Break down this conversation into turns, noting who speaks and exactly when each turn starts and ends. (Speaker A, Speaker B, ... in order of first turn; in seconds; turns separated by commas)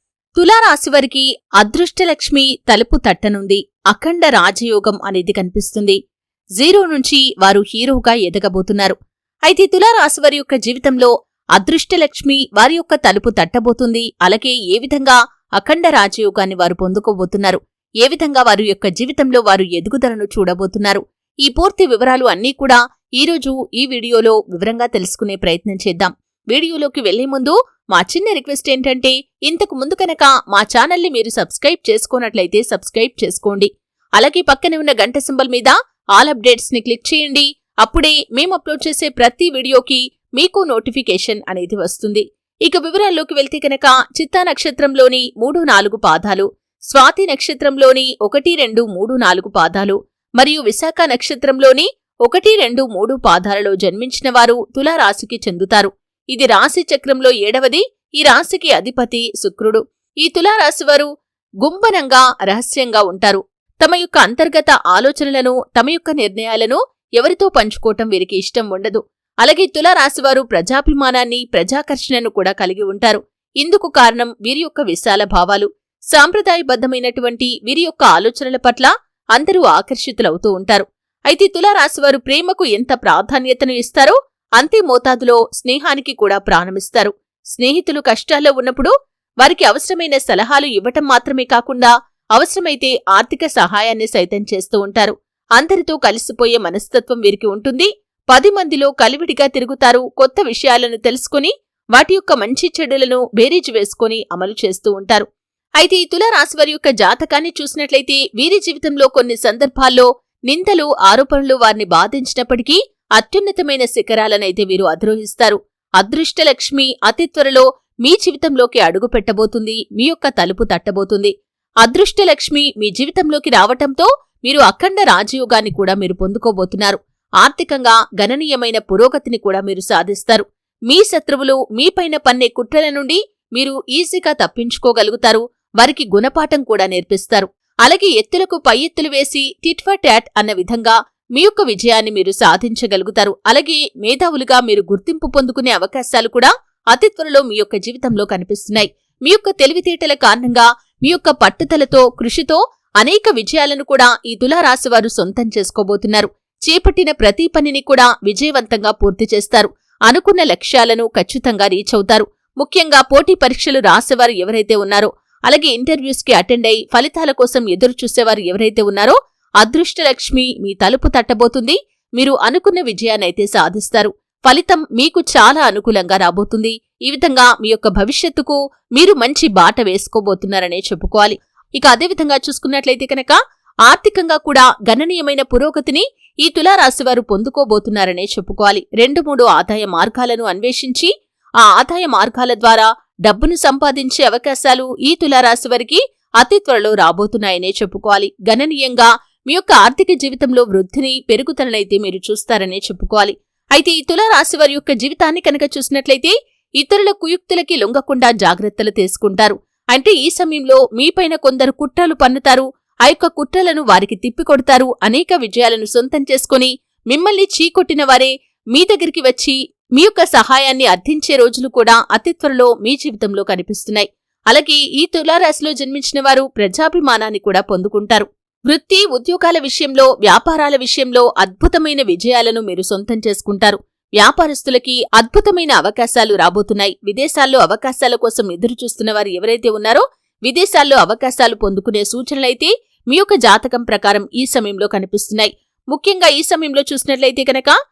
Speaker A: 0.4-6.0, Speaker A: 6.6-9.0, Speaker A: 9.5-61.1, Speaker A: 61.6-88.9, Speaker A: 89.4-105.3, Speaker A: 105.8-121.3, Speaker A: 121.8-183.3, Speaker A: 183.9-191.1, Speaker A: 191.7-247.8